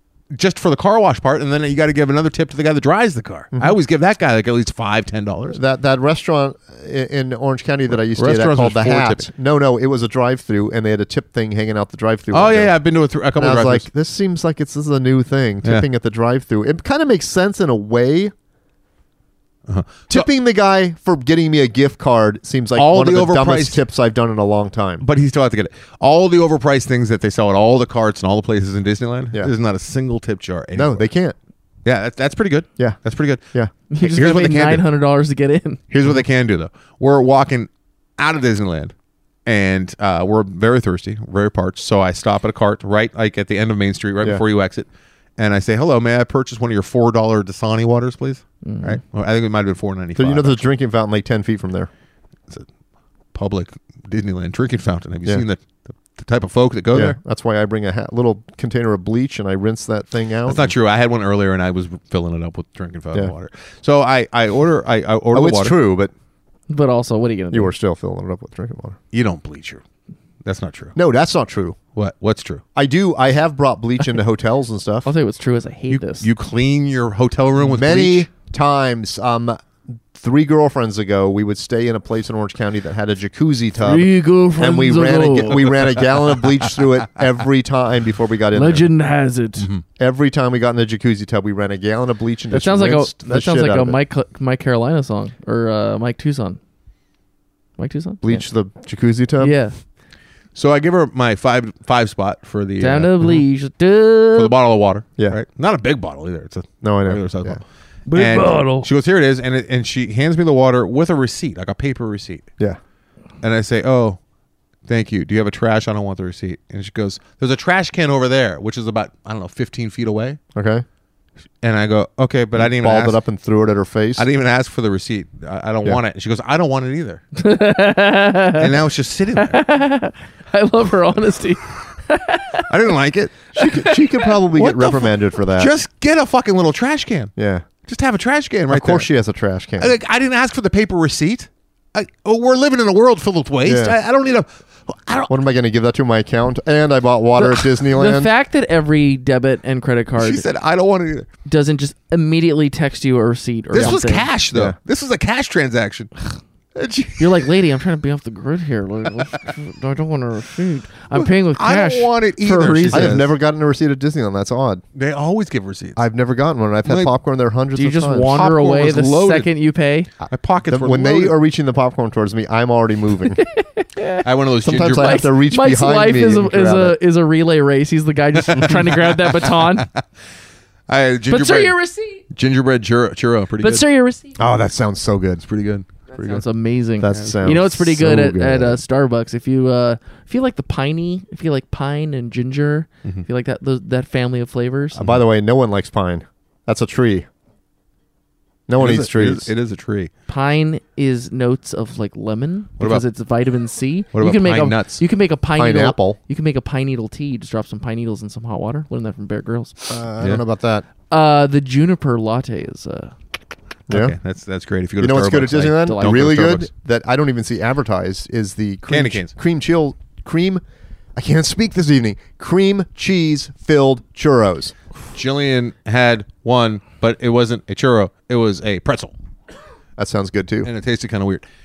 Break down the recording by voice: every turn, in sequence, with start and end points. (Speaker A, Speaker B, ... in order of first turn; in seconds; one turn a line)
Speaker A: 0.3-5.6
Speaker B: 5.5-12.7
Speaker A: 8.1-9.3
Speaker A: 12.3-13.9
Speaker B: 13.4-18.3
Speaker A: 19.7-20.3
Speaker B: 20.1-25.1
Speaker A: 22.8-23.8
Speaker A: 25.0-31.1
Speaker B: 30.8-31.4
Speaker A: 31.9-33.4
Speaker C: 33.9-35.8
Speaker A: 34.0-34.8
Speaker A: 35.9-38.9
Speaker A: 39.5-50.6
Speaker C: 48.6-49.0
Speaker B: 50.2-51.9
Speaker A: 53.3-55.6
Speaker A: 56.1-57.2
Speaker B: 56.9-60.7
Speaker A: 60.5-65.8
Speaker B: 65.3-66.1
Speaker C: 66.7-67.7
Speaker B: 67.5-69.0
Speaker A: 69.1-69.8
Speaker A: 70.4-71.0
Speaker B: 71.0-71.8
Speaker A: 72.0-72.6
Speaker B: 72.8-75.1
Speaker C: 75.0-76.3
Speaker A: 75.9-78.3
Speaker B: 77.6-88.9
Speaker C: 83.8-85.6
Speaker A: 85.6-86.0
Speaker C: 88.5-89.7
Speaker A: 89.6-89.8
Speaker B: 90.0-94.0
Speaker C: 92.5-96.6
Speaker C: 97.8-98.4
Speaker B: 98.2-99.5
Speaker C: 99.4-99.8
Speaker A: 100.5-103.3
Speaker C: 102.8-104.5
Speaker A: 104.3-107.6
Speaker B: 106.8-107.6
Speaker C: 108.1-108.9
Speaker A: 108.1-112.5
Speaker A: 113.4-114.2
Speaker A: 114.9-120.4
Speaker B: 120.5-120.8
Speaker A: 121.6-123.2
Speaker B: 122.6-124.3
Speaker A: 124.2-127.2
Speaker C: 127.4-128.8
Speaker A: 128.6-129.6
Speaker C: 129.4-132.7
Speaker A: 132.7-133.6
Speaker B: 133.6-135.7
Speaker A: 134.6-137.3
Speaker B: 137.4-137.7
Speaker A: 137.9-139.1
Speaker B: 138.7-139.9
Speaker A: 139.8-145.3
Speaker B: 143.6-144.0
Speaker B: 145.3-148.3
Speaker C: 147.4-150.4
Speaker A: 150.2-151.3
Speaker C: 151.4-154.3
Speaker A: 153.7-156.1
Speaker A: 156.8-157.5
Speaker C: 157.2-163.2
Speaker A: 161.1-163.3
Speaker B: 162.9-164.8
Speaker A: 164.9-166.0
Speaker B: 166.0-168.4
Speaker A: 166.8-167.1
Speaker C: 167.8-170.1
Speaker A: 168.3-169.5
Speaker A: 170.3-171.3
Speaker B: 170.7-173.4
Speaker C: 173.4-179.9
Speaker A: 174.2-175.3
Speaker B: 174.7-177.0
Speaker A: 178.4-180.0
Speaker A: 180.9-181.8
Speaker C: 181.3-182.2
Speaker A: 182.3-183.8
Speaker C: 183.6-184.3
Speaker B: 184.4-185.4
Speaker A: 185.4-186.4
Speaker C: 186.1-195.1
Speaker B: 187.0-188.8
Speaker A: 187.1-187.4
Speaker B: 194.9-197.3
Speaker B: 198.7-199.5
Speaker A: 198.8-200.1
Speaker C: 200.3-209.9
Speaker A: 202.8-203.0
Speaker A: 204.1-205.0
Speaker B: 205.6-206.2
Speaker B: 209.9-210.8
Speaker C: 211.1-213.2
Speaker B: 213.9-214.2
Speaker A: 213.9-216.7
Speaker B: 215.0-220.6
Speaker C: 215.8-216.2
Speaker A: 218.9-219.3
Speaker B: 221.2-224.8
Speaker A: 225.1-229.1
Speaker B: 230.0-230.7
Speaker A: 230.7-231.4